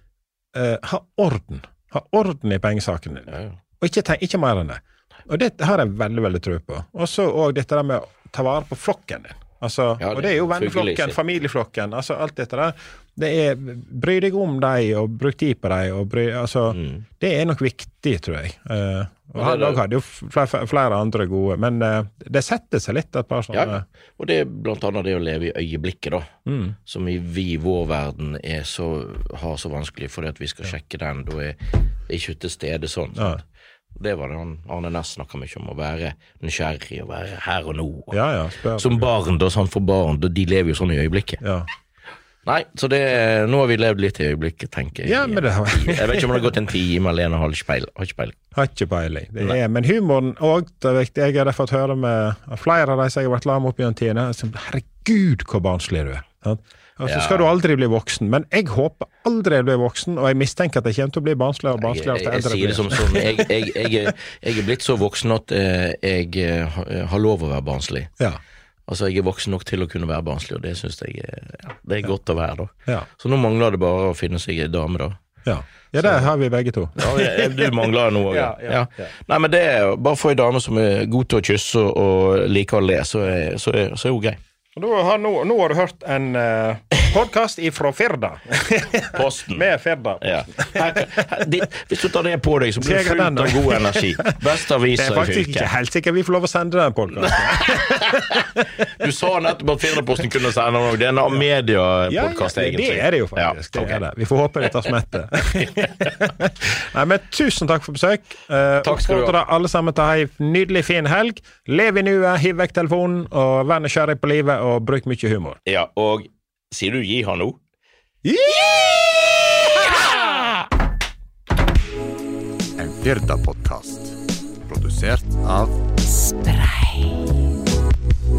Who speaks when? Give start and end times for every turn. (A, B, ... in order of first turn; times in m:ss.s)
0:00.5-0:23.8 A
0:03.3-0:03.6 B
0:10.0-0:11.2 B
0:16.7-0:17.0 B
0:19.4-0:19.8 B
0:23.5-0:26.3 B
0:26.4-0:26.8 A
0:26.8-0:33.4 B
0:33.2-0:33.4 A
0:34.0-0:38.2 B
0:38.1-0:39.1 A
0:38.8-0:41.4 B
0:41.4-0:41.7 A
0:42.4-0:48.4 B
0:45.0-0:46.5 A
0:48.5-1:04.1 A
0:57.0-0:57.5 B
1:01.8-1:08.1 B
1:08.9-1:15.2 B
1:15.4-1:19.1 A
1:16.0-1:16.3 B
1:17.0-1:24.4 B
1:24.7-1:31.3 A
1:29.1-1:29.7 B
1:30.2-1:35.7 B
1:32.8-1:34.3 A
1:34.9-1:38.6 A
1:37.3-1:38.3 B
1:39.0-1:44.0 B
1:42.1-1:55.6 A
1:48.8-1:49.3 B
1:55.6-1:57.6 B
1:58.2-2:00.4 A
1:59.8-2:00.1 B
2:02.8-2:04.0 C
2:04.7-2:05.7 C
2:06.4-2:07.1 A